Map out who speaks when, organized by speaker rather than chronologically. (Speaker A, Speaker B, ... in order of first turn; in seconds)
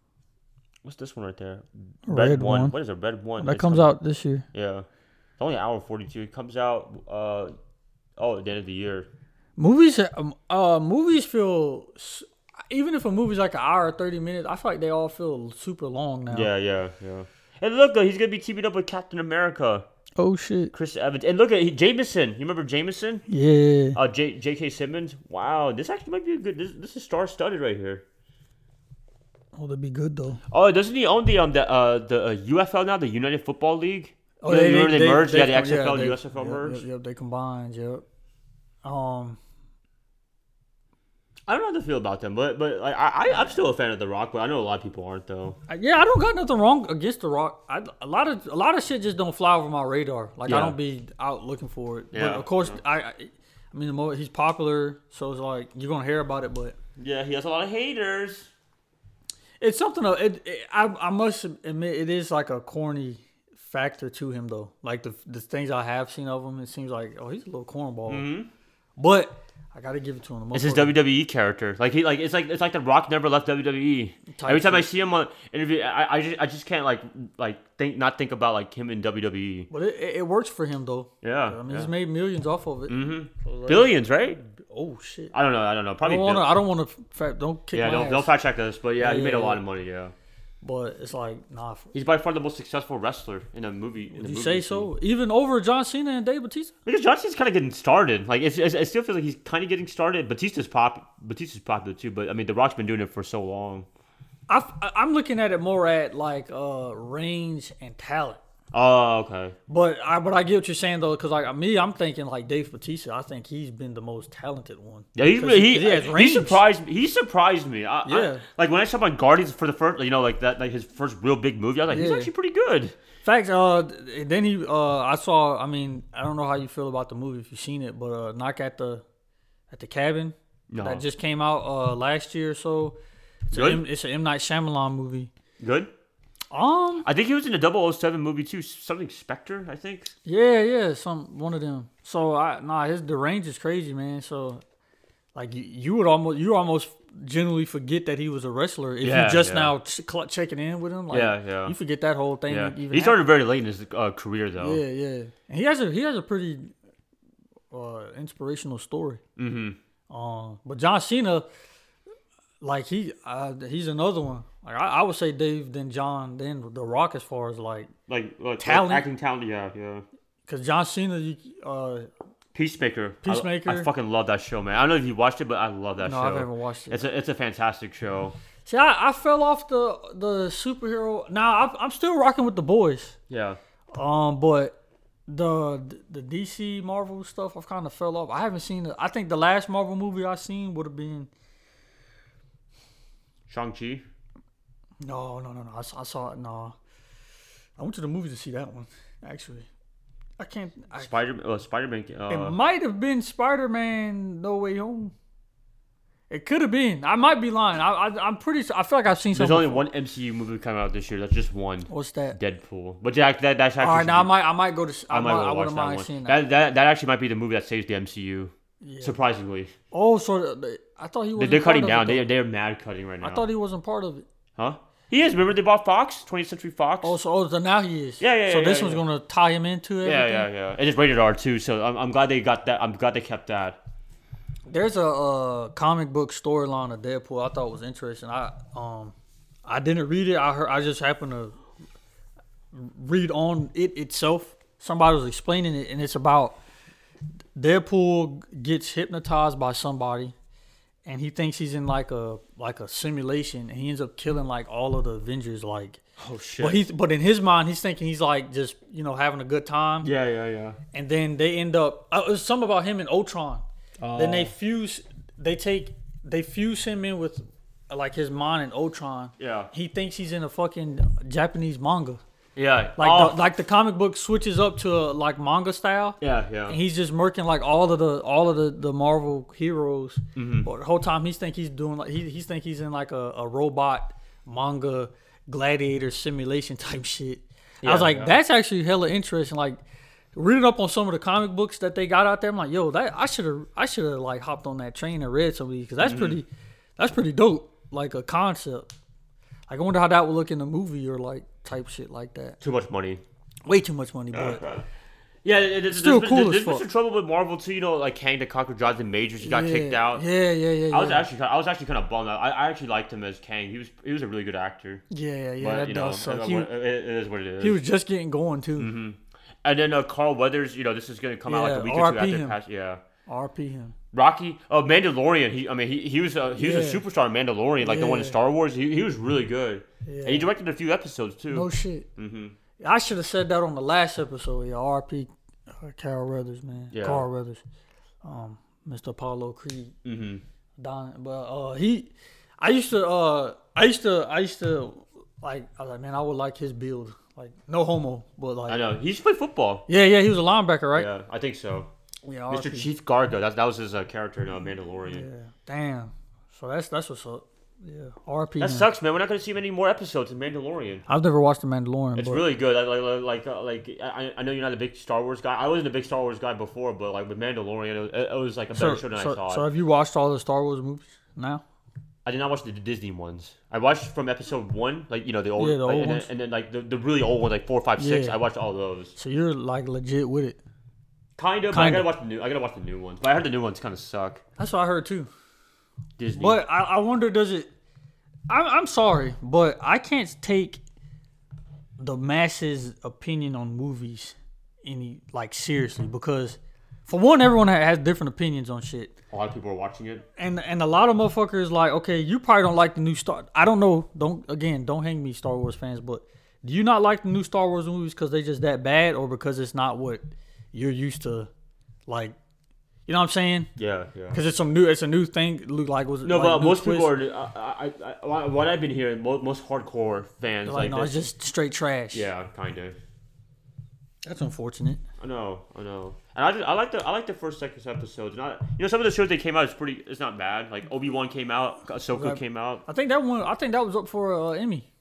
Speaker A: 0.8-3.9, 4.5-4.9, 5.4-7.5, 8.2-9.1, 16.3-19.9, 20.7-23.2, 23.9-28.0, 30.5-36.8, 41.5-45.6, 50.5-50.8, 52.1-52.8, 57.0-58.5, 68.1-68.5, 70.5-79.7, 81.2-81.9, 82.9-84.4, 85.3-86.5, 87.7-90.1, 91.9-94.9, 96.9-103.9, 108.7-109.5, 115.2-123.0, 130.7-131.1, 133.5-133.8, 135.6-135.9, 137.0-140.1, 149.0-149.7, 151.1-151.7, 152.5-154.8, 159.4-159.8, 168.1-170.0, 172.6-178.3, 183.3-183.6, 193.5-194.0, 201.0-202.6, 209.3-214.3, 215.1-219.7, 221.4-223.4, 224.6-227.2, 228.2-229.0, 230.0-233.8, 256.2-256.8, 260.0-260.8, 264.0-264.5, 269.4-269.7, 272.6-273.4, 276.2-276.8, 280.4-280.7, 287.8-288.4, 296.0-296.4, 302.6-303.2, 304.3-304.8, 305.4-310.2, 310.9-315.0, 315.6-317.8, 318.8-323.0, 324.1-332.6, 336.9-337.2, 340.1-340.4, 348.7-349.9, 350.9-351.9, 352.5-355.3, 358.6-361.0, 362.1-369.7, 372.2-379.1, 381.4-384.4, 386.2-386.6, 399.3-400.2, 413.8-414.4, 416.2-421.2, 422.1-423.0, 425.2-432.9
Speaker B: 2.1-2.8, 3.4-4.5, 9.6-16.5, 20.2-20.7, 23.3-24.0, 29.5-30.4, 34.4-38.0, 38.8-39.4, 45.7-56.8, 59.6-68.3, 69.0-71.0, 74.3-74.9, 79.7-85.3, 86.0-88.3, 89.0-89.6, 90.6-91.9, 94.1-96.7, 104.5-108.4, 109.7-116.6, 118.0-118.4, 121.9-122.3, 123.2-129.0, 129.7-133.0, 133.5-135.3, 136.5-137.1, 140.2-144.6, 145.3-153.2, 154.6-156.7, 157.7-159.2, 160.1-161.5, 162.6-167.9, 168.6-169.1, 170.5-172.1, 173.2-173.9, 176.0-177.0, 178.7-183.2, 183.9-191.3, 195.0-196.8, 197.8-199.7, 200.4-201.1, 202.3-205.1, 206.3-209.8, 211.9-212.4, 213.8-216.4, 218.8-219.2, 219.9-222.3, 223.2-224.3, 227.0-230.5, 234.7-239.1, 239.7-241.6, 242.7-246.6, 247.6-250.3, 251.1-256.0, 256.6-260.1, 260.9-263.6, 264.2-272.2, 273.0-289.8, 290.3-296.5, 297.0-298.9, 299.7-302.6, 303.7-304.6, 305.9-306.9, 309.4-311.3, 315.1-316.7, 317.6-318.9, 321.5-322.6, 323.3-323.9, 326.6-327.0, 327.8-328.4, 330.1-330.5, 331.5-332.1, 332.8-337.6, 338.2-339.9, 340.8-348.8, 349.9-351.1, 352.2-352.9, 355.1-358.9, 361.1-362.5, 368.7-371.6, 375.6-376.3, 378.0-378.4, 379.2-380.6, 381.7-382.1, 384.6-385.3, 386.4-387.7, 388.5-390.8, 392.0-399.1, 400.4-411.5, 412.1-412.4, 413.1-413.7, 414.3-417.1, 420.6-422.3, 424.2-425.0, 432.1-434.9